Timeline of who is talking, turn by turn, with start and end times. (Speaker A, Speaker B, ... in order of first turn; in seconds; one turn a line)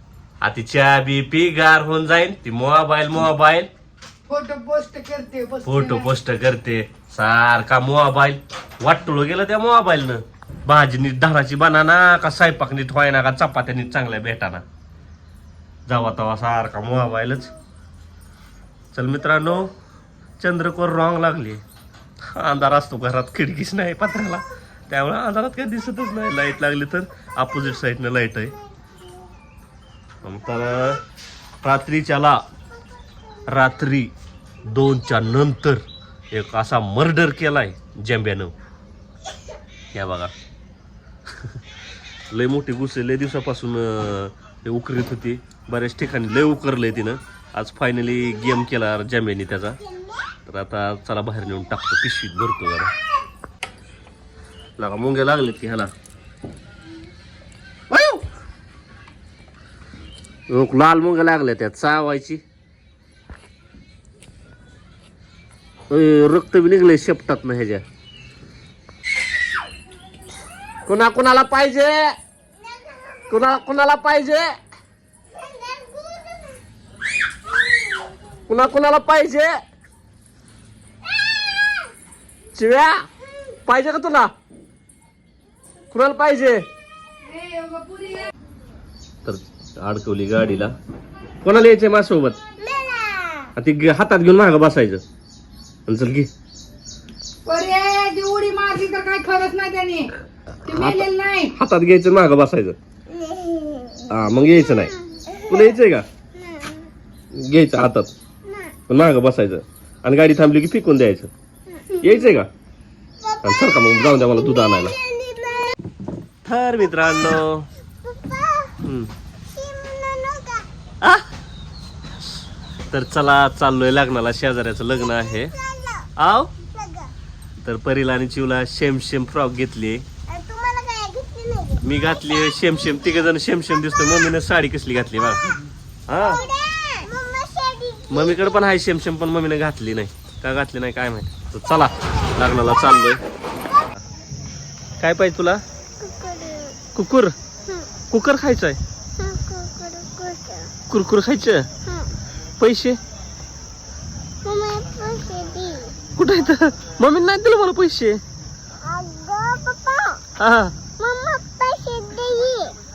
Speaker A: 0.4-3.7
Speaker B: 4.3-6.0
Speaker A: 5.7-14.6
Speaker A: 15.9-17.5
Speaker A: 18.9-19.7
Speaker A: 20.4-21.6
Speaker A: 22.3-28.6
Speaker A: 30.2-31.0
Speaker A: 31.6-32.4
Speaker A: 33.5-34.1
Speaker A: 34.6-38.5
Speaker A: 39.9-40.3
Speaker A: 42.3-49.8
Speaker A: 50.5-52.9
Speaker A: 54.8-55.9
Speaker A: 57.9-58.2
Speaker A: 60.5-62.4
Speaker A: 65.9-67.8
Speaker A: 70.9-72.2
Speaker C: 72.8-73.3
Speaker A: 73.3-74.5
Speaker C: 75.3-76.6
Speaker A: 78.5-79.6
Speaker C: 81.2-81.9
Speaker A: 82.5-83.1
Speaker A: 83.7-84.3
Speaker A: 85.9-86.7
Speaker B: 87.3-88.3
Speaker A: 89.2-90.7
Speaker A: 91.4-92.4
Speaker C: 92.6-93.5
Speaker A: 93.6-95.0
Speaker A: 95.9-96.3
Speaker B: 97.5-100.1
Speaker B: 100.7-101.5
Speaker A: 100.7-102.8
Speaker C: 103.1-105.8
Speaker A: 104.1-104.9
Speaker A: 105.5-106.0
Speaker C: 106.3-106.9
Speaker A: 107.3-108.1
Speaker C: 108.5-108.8
Speaker A: 108.9-111.3
Speaker C: 111.7-112.3
Speaker A: 112.0-112.5
Speaker C: 113.2-115.8
Speaker A: 113.4-115.0
Speaker A: 116.5-117.7
Speaker C: 118.0-118.8
Speaker A: 118.8-119.1
Speaker C: 119.5-120.7
Speaker A: 121.0-121.3
Speaker A: 122.9-125.5
Speaker C: 125.2-127.1
Speaker A: 126.2-126.5
Speaker A: 127.6-130.1
Speaker C: 130.3-133.1
Speaker A: 131.8-135.4
Speaker A: 136.1-136.4
Speaker C: 136.2-138.6
Speaker A: 138.1-143.2
Speaker C: 142.2-143.2
Speaker A: 145.0-145.6
Speaker C: 146.0-146.8
Speaker A: 146.9-147.3
Speaker A: 148.1-148.8
Speaker C: 149.2-150.7
Speaker A: 150.9-151.7
Speaker C: 151.9-152.1
Speaker A: 152.6-153.0
Speaker C: 154.4-156.0
Speaker A: 156.2-158.2
Speaker C: 158.8-160.2
Speaker A: 160.4-160.8
Speaker C: 161.0-162.8